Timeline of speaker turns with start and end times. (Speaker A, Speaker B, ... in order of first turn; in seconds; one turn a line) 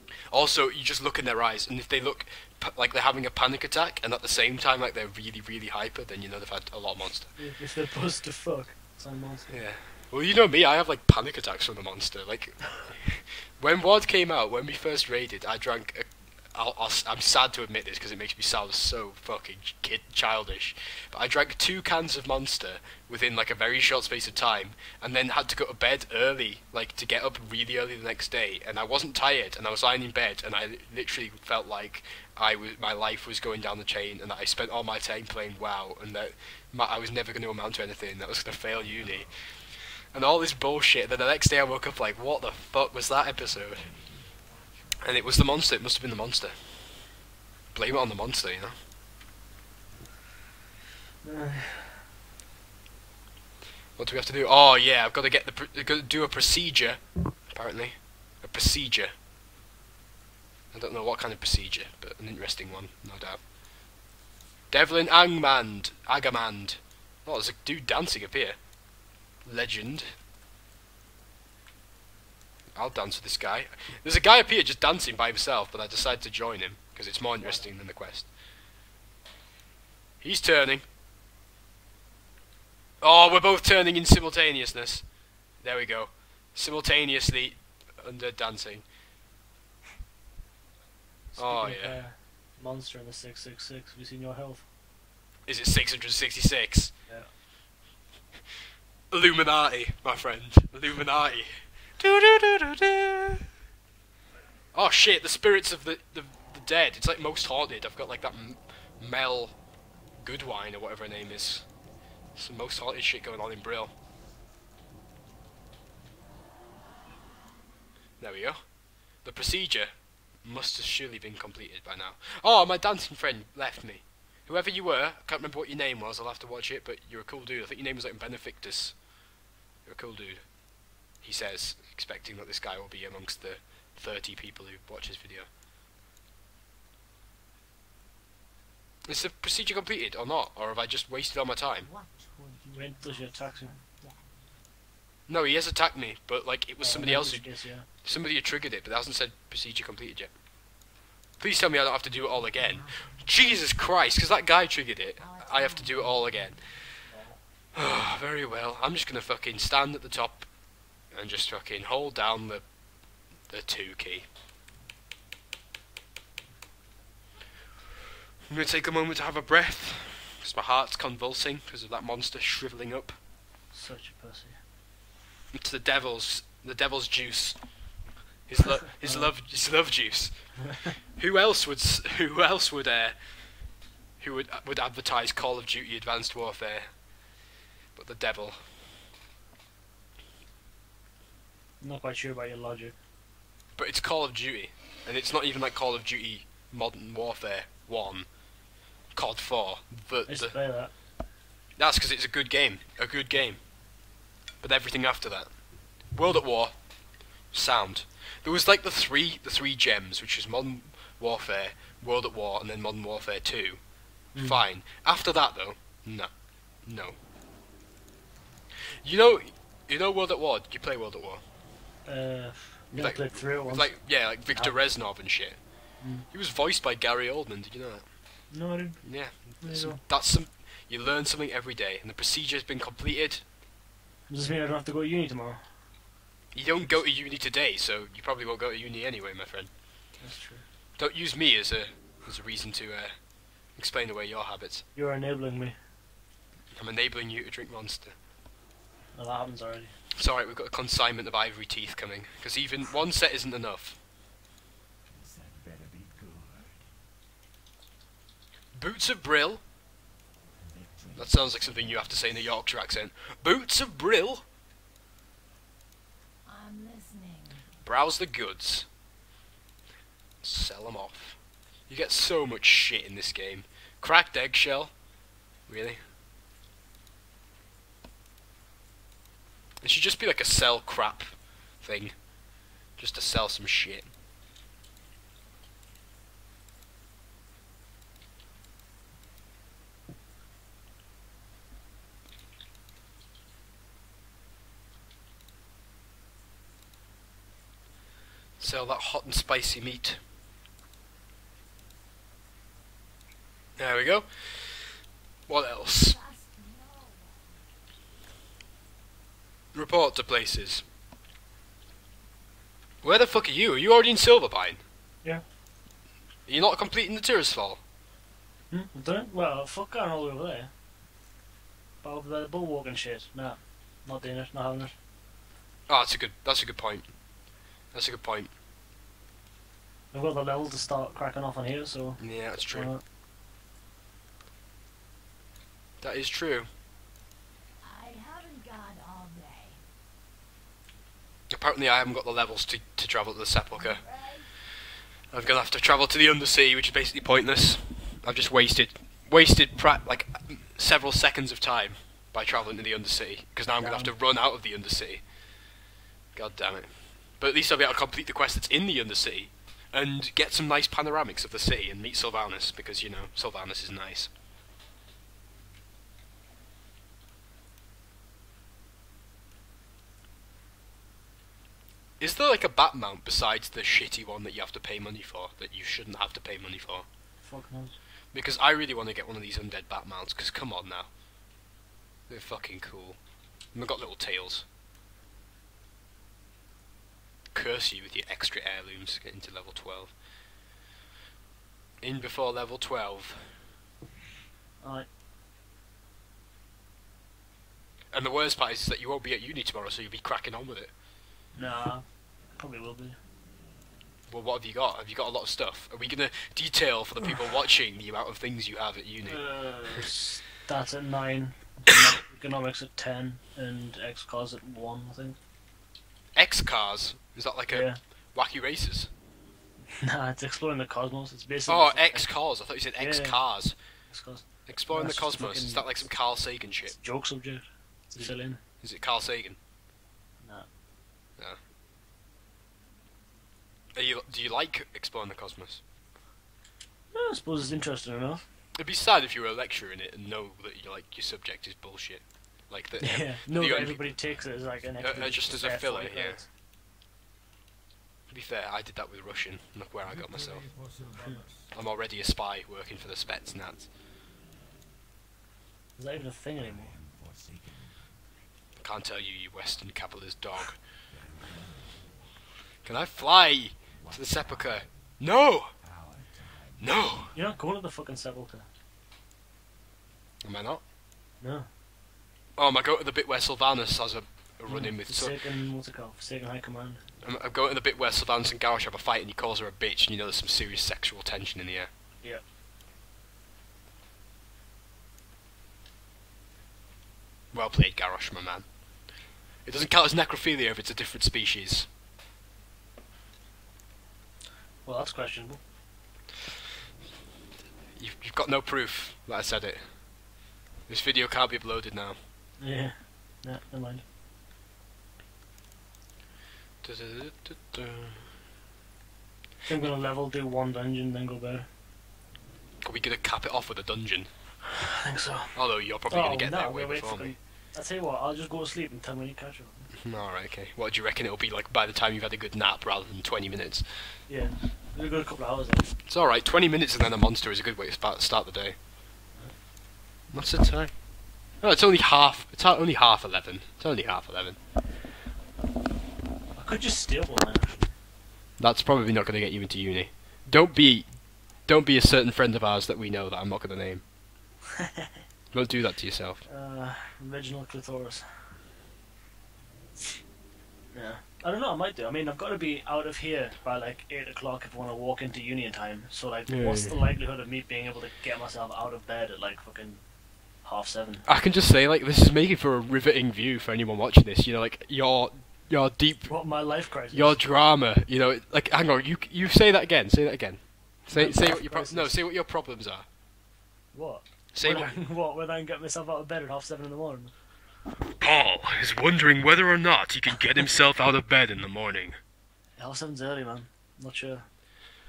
Speaker A: 0.3-7.3
Speaker B: 7.4-9.6
Speaker A: 9.5-39.4
Speaker A: 40.1-43.9
Speaker C: 43.7-45.2
Speaker A: 45.0-47.1
Speaker A: 47.7-48.8
Speaker B: 51.2-52.0
Speaker A: 54.0-59.1
Speaker A: 60.7-63.4
Speaker A: 64.7-68.6
Speaker A: 69.4-70.1
Speaker A: 72.7-78.3
Speaker B: 77.4-77.7
Speaker A: 80.2-80.8
Speaker A: 83.0-85.0
Speaker A: 85.6-88.8
Speaker B: 91.3-94.6
Speaker A: 91.3-92.0
Speaker A: 95.5-96.9
Speaker A: 99.1-103.5
Speaker A: 104.7-109.5
Speaker A: 110.2-111.7
Speaker A: 112.3-113.9
Speaker A: 118.2-118.6
Speaker A: 119.2-129.0
Speaker A: 129.8-130.4
Speaker A: 131.2-135.5
Speaker A: 139.0-141.9
Speaker C: 141.9-144.2
Speaker B: 142.7-143.7
Speaker A: 145.3-147.5
Speaker B: 146.8-147.9
Speaker A: 148.0-150.3
Speaker A: 151.4-156.9
Speaker C: 152.6-153.3
Speaker C: 155.2-156.7
Speaker D: 155.6-156.0
Speaker B: 157.1-157.4
Speaker A: 157.7-160.5
Speaker A: 161.1-162.6
Speaker A: 163.5-164.3
Speaker A: 168.5-173.2
Speaker B: 173.7-174.6
Speaker A: 175.5-177.6
Speaker A: 178.4-183.2
Speaker B: 179.0-179.3
Speaker A: 184.2-186.9
Speaker A: 187.9-188.6
Speaker B: 191.8-192.9
Speaker A: 193.8-198.3
Speaker A: 199.1-200.5
Speaker B: 200.3-200.9
Speaker A: 201.8-203.6
Speaker A: 204.6-205.5
Speaker A: 206.1-206.8
Speaker A: 207.5-213.8
Speaker B: 214.3-214.6
Speaker A: 214.4-216.3
Speaker A: 216.8-217.2
Speaker A: 219.0-221.4
Speaker B: 222.0-224.8
Speaker A: 222.9-225.6
Speaker B: 226.0-226.2
Speaker A: 226.3-228.1
Speaker B: 228.5-229.1
Speaker A: 229.0-233.4
Speaker B: 229.6-230.0
Speaker B: 234.3-235.6
Speaker A: 236.5-239.7
Speaker B: 240.2-240.6
Speaker A: 241.0-243.2
Speaker A: 243.7-244.8
Speaker B: 244.9-245.8
Speaker A: 246.8-248.1
Speaker B: 249.1-249.9
Speaker A: 250.1-254.0
Speaker C: 255.1-256.9
Speaker A: 258.7-259.6
Speaker C: 260.6-262.6
Speaker A: 261.1-264.4
Speaker D: 266.4-267.7
Speaker A: 267.8-268.9
Speaker A: 270.4-271.4
Speaker A: 271.9-274.9
Speaker A: 275.7-276.0
Speaker A: 279.8-282.1
Speaker A: 283.0-284.1
Speaker A: 298.6-300.2
Speaker A: 303.8-305.0
Speaker A: 305.5-306.2
Speaker D: 305.9-307.6
Speaker A: 309.7-310.8
Speaker A: 313.0-314.8
Speaker A: 316.4-317.8
Speaker B: 318.7-320.7
Speaker B: 322.0-324.9
Speaker A: 325.9-327.1
Speaker A: 327.9-328.5
Speaker B: 330.1-333.0
Speaker A: 332.2-332.9
Speaker A: 336.0-336.7
Speaker D: 337.8-339.8
Speaker A: 341.5-344.0
Speaker D: 343.7-344.5
Speaker A: 345.3-355.2
Speaker B: 353.8-354.1
Speaker A: 356.3-364.3
Speaker A: 372.2-377.1
Speaker B: 377.4-377.9
Speaker A: 378.3-381.1
Speaker A: 382.3-383.2
Speaker A: 383.7-384.6
Speaker A: 387.5-390.1
Speaker A: 392.0-393.7
Speaker B: 394.8-395.1
Speaker A: 398.1-400.9
Speaker B: 401.5-402.0
Speaker B: 402.6-403.2
Speaker A: 404.3-410.1
Speaker B: 409.3-415.4
Speaker A: 416.4-419.1
Speaker B: 417.7-418.0
Speaker B: 419.9-422.3
Speaker A: 421.7-423.8
Speaker B: 423.0-423.4
Speaker B: 424.1-425.9
Speaker A: 424.7-426.9
Speaker B: 426.9-428.6
Speaker A: 428.2-429.6
Speaker B: 430.4-430.7
Speaker A: 433.9-435.8
Speaker B: 437.1-438.4
Speaker A: 438.8-444.1
Speaker B: 443.0-446.5
Speaker C: 443.8-445.2
Speaker A: 445.0-446.4
Speaker A: 448.3-450.8
Speaker C: 450.2-451.7
Speaker A: 451.7-453.9
Speaker B: 456.0-457.0
Speaker C: 456.6-458.0
Speaker A: 458.8-460.8
Speaker C: 461.1-462.1
Speaker A: 462.8-465.8
Speaker C: 464.0-464.8
Speaker C: 465.8-467.4
Speaker A: 466.8-467.3
Speaker B: 467.3-468.6
Speaker A: 470.4-470.8
Speaker B: 471.4-471.7
Speaker A: 472.6-475.4
Speaker B: 474.7-477.0
Speaker A: 477.2-481.9
Speaker A: 487.5-488.7
Speaker A: 489.6-491.9
Speaker B: 494.8-495.6
Speaker A: 498.0-500.0
Speaker A: 500.9-502.2
Speaker B: 502.6-504.0
Speaker A: 506.8-508.3
Speaker B: 509.6-511.7
Speaker A: 512.8-514.3
Speaker B: 514.7-519.9
Speaker A: 515.5-517.3
Speaker A: 520.0-524.2
Speaker B: 524.3-525.9
Speaker A: 526.0-528.8
Speaker A: 530.3-534.6
Speaker B: 536.5-537.9
Speaker A: 538.6-544.0
Speaker B: 544.8-545.1
Speaker A: 545.5-546.4
Speaker B: 546.4-548.6
Speaker B: 550.9-560.0
Speaker A: 556.5-557.0
Speaker B: 560.6-561.2
Speaker A: 561.2-566.3
Speaker B: 566.3-567.4
Speaker A: 567.1-573.0
Speaker B: 571.1-572.1
Speaker B: 573.9-577.3
Speaker A: 574.5-574.9
Speaker A: 578.2-582.2
Speaker B: 582.8-584.5